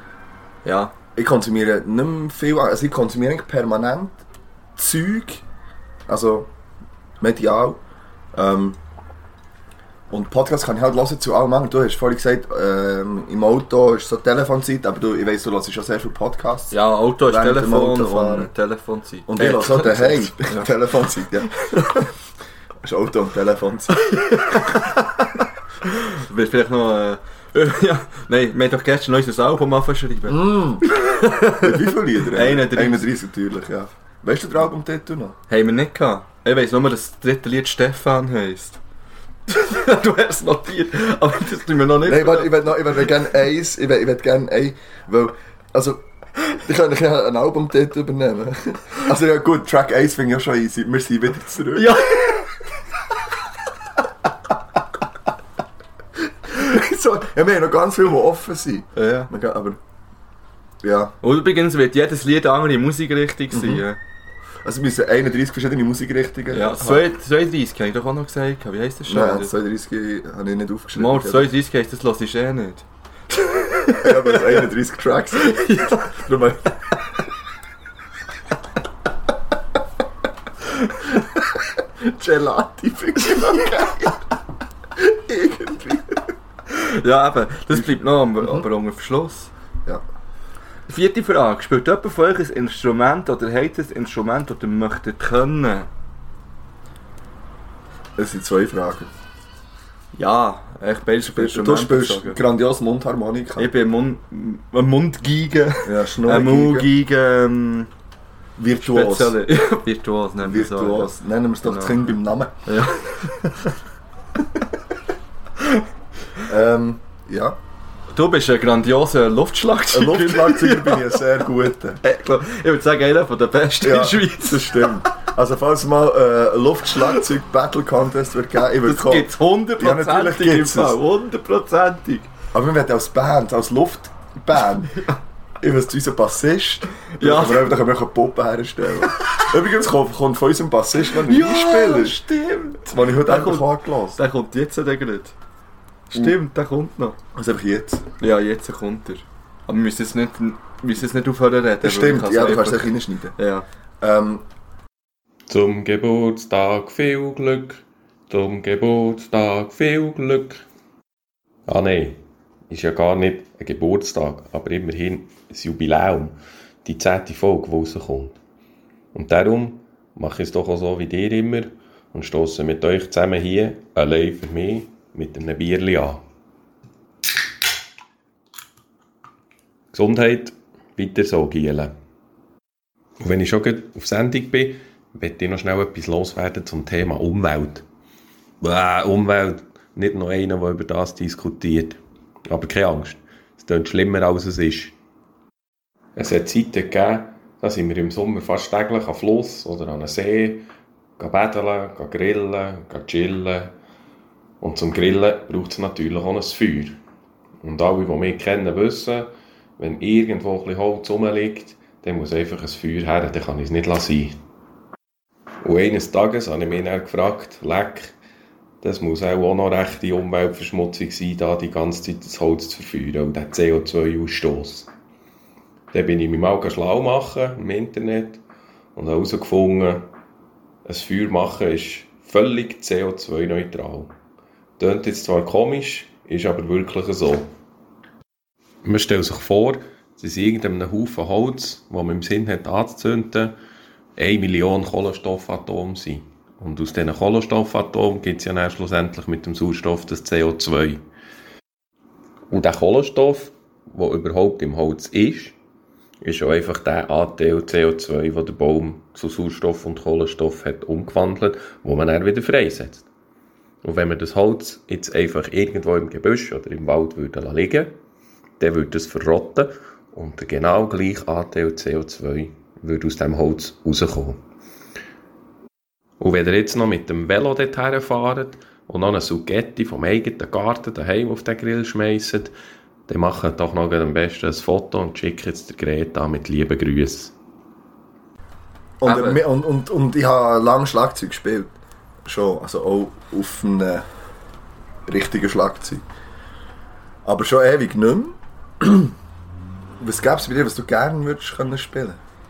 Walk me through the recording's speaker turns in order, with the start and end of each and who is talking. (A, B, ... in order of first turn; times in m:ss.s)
0:00.6-0:00.9 A
0:01.2-0:04.2 B
0:04.8-0:05.4 B
0:06.1-0:06.5 B
0:07.2-0:07.8 B
0:08.3-0:08.8 B
0:10.1-0:18.5 B
0:16.7-0:20.7 A
0:19.3-0:21.5 B
0:22.8-0:24.0 B
0:24.0-0:33.1 A
0:30.3-0:30.9 B
0:31.5-0:35.4 B
0:35.5-0:38.8 A
0:39.5-0:42.7 A
0:42.0-0:52.0 B
0:51.7-0:52.5 A
0:56.5-0:59.8 B
0:59.0-0:59.3 A
1:00.8-1:01.1 B
1:01.2-1:04.0 A
1:03.5-1:03.8 B
1:04.6-1:07.1 B
1:06.5-1:09.5 A
1:09.1-1:11.5 B
1:11.0-1:14.6 A
1:14.0-1:16.8 B
1:15.4-1:16.2 A
1:21.0-1:24.2 B
1:25.0-1:26.3 B
1:26.7-1:29.5 A
1:27.7-1:28.6 B
1:30.9-1:35.9 A
1:38.2-1:39.1 B
1:40.1-1:42.4 A
1:41.2-1:43.7 B
1:43.6-1:47.9 A
1:45.8-1:46.9 B
1:48.6-1:49.4 B
1:48.8-1:52.0 A
1:50.4-1:52.5 B
1:52.6-1:53.7 A
1:56.4-1:57.6 B
1:58.1-2:01.2 A
1:59.9-2:02.0 B
2:02.0-2:05.0 A
2:03.8-2:11.0 B
2:08.8-2:12.3 A
2:12.5-2:15.0 B
2:15.6-2:22.2 B
2:17.1-2:17.7 A
2:21.2-2:25.3 A
2:22.8-2:24.2 B
2:26.1-2:27.2 A
2:27.3-2:28.0 B
2:28.2-2:33.6 A
2:31.8-2:33.3 B
2:34.0-2:34.4 B
2:35.5-2:40.6 C
2:41.7-2:48.3 C
2:49.1-2:56.2 C
2:59.9-3:01.9 C
3:03.2-3:07.8 C
3:08.6-3:14.9 C
3:16.2-3:20.7 C
3:21.2-3:23.7 C
3:24.6-3:27.0 C
3:27.6-3:34.4 C
3:35.6-3:38.1 C
3:38.8-3:44.9 C
3:45.9-3:48.4 C
3:49.0-3:50.1 C
3:50.8-3:54.1 C
3:54.8-3:57.5 C
3:58.8-4:03.5 C
4:04.2-4:11.0 C
4:12.5-4:15.5 C
4:16.2-4:23.0 C
4:23.8-4:28.0 C
4:28.6-4:34.4 C
4:36.2-4:42.5 C
4:43.1-4:47.3 C
4:49.0-4:51.7 B
4:49.0-4:49.4 A
4:52.2-4:54.0 B
4:55.1-4:56.0 B
4:57.2-4:59.1 B
5:00.0-5:02.2 B